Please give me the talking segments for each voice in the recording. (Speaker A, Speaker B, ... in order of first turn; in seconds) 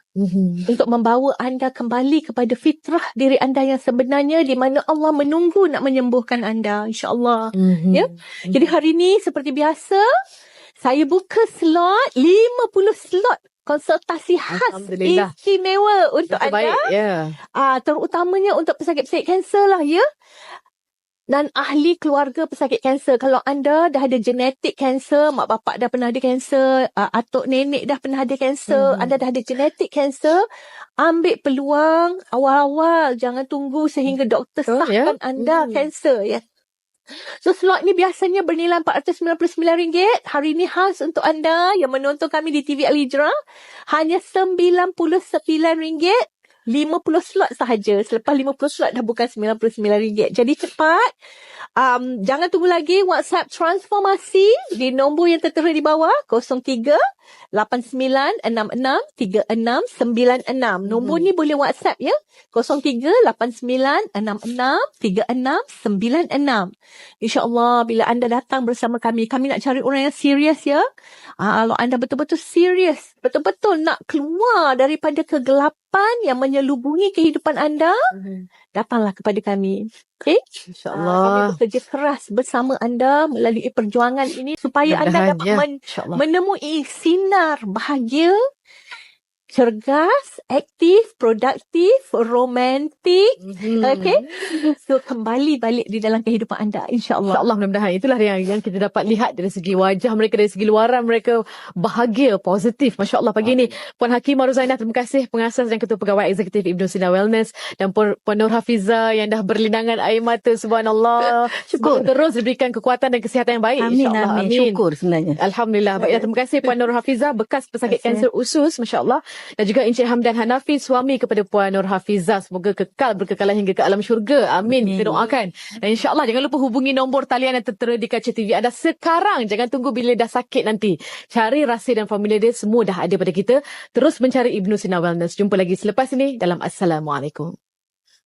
Speaker A: 0.2-0.6, 7.5-8.6, 14.5-15.3, 16.3-17.4, 28.7-29.1, 34.7-35.8, 60.9-61.3, 78.1-78.5, 80.7-81.5, 84.9-86.2, 93.4-94.2, 97.3-114.8, 115.4-137.5
Speaker B: 0.7-10.0, 10.8-16.7, 17.6-20.0, 21.3-30.4, 31.0-36.4, 37.4-43.3, 43.9-46.1, 46.7-51.0, 51.8-57.0, 57.5-66.7, 67.2-70.8, 71.4-77.9, 78.7-80.4, 80.9-88.3, 89.5-97.4
Speaker C: 111.7-112.1, 113.8-115.4, 116.0-116.8, 117.9-118.3, 124.7-125.3